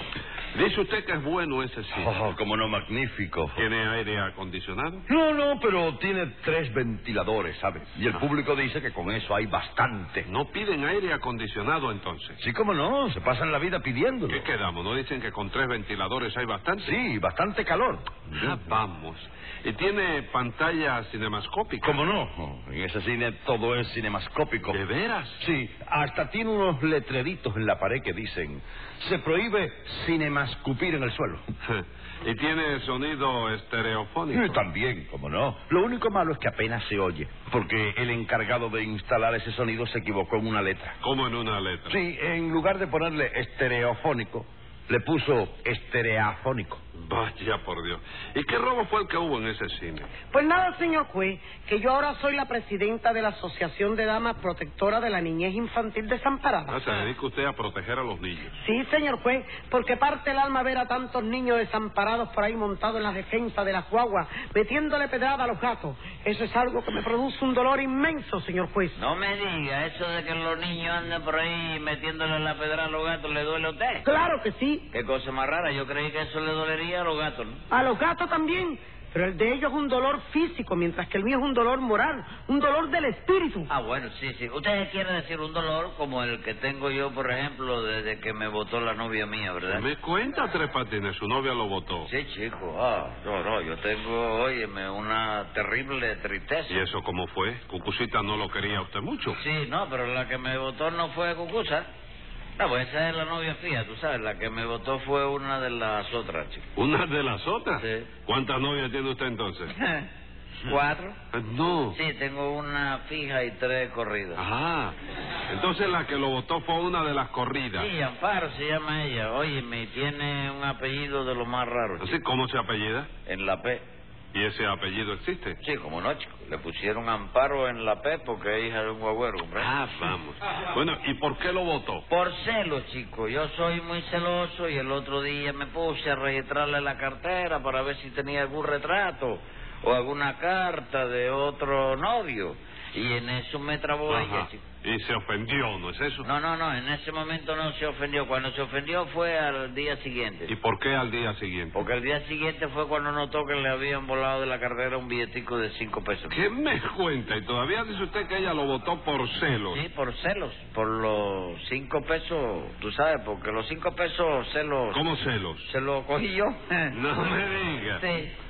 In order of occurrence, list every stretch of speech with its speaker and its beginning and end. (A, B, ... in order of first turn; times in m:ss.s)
0:00.5-0:02.1 A
0:01.9-0:03.6 B
0:03.6-0:05.0 A
0:05.1-0:10.3 B
0:10.2-0:12.4 A
0:12.4-0:14.4 B
0:14.3-0:17.0 A
0:16.8-0:18.5 B
0:18.3-0:22.0 A
0:21.8-0:24.8 B
0:24.7-0:25.4 A
0:25.4-0:31.4 B
0:31.6-0:34.6 A
0:34.3-0:41.0 B
0:41.0-0:42.0 A
0:41.9-0:46.8 B
0:46.9-0:50.1 A
0:50.3-0:56.8 C
0:56.7-0:58.6 A
0:58.6-1:09.0 C
1:09.0-1:14.0 D
1:14.0-1:14.9 C
1:14.9-1:17.6 D
1:17.7-1:23.7 C
1:23.7-1:29.8 D
1:29.7-1:32.1 A
1:32.0-1:36.8 D
1:36.7-1:39.4 A
1:39.4-1:41.9 D
1:42.6-1:46.6 D
1:46.8-1:49.7 A
1:47.8-1:48.1 D
1:49.7-1:50.1 D
1:50.6-1:51.2 D
1:51.3-1:52.0 A
1:51.9-1:54.4 D
1:54.4-1:54.9 A
1:55.5-1:57.9 A
1:57.7-2:02.1 D
2:02.0-2:03.1 A
2:03.2-2:03.8 D
2:04.3-2:05.6 A
2:05.6-2:09.7 D
2:09.6-2:12.0 A
2:12.1-2:24.6 D
2:24.1-2:26.3 A
2:26.2-2:30.5 D
2:30.5-2:31.8 A
2:31.7-2:36.4 D
2:36.3-2:39.8 A
2:39.7-2:45.0 D
2:44.9-2:45.7 A
2:45.6-2:47.0 D
2:46.9-2:48.0 A
2:48.0-2:48.3 D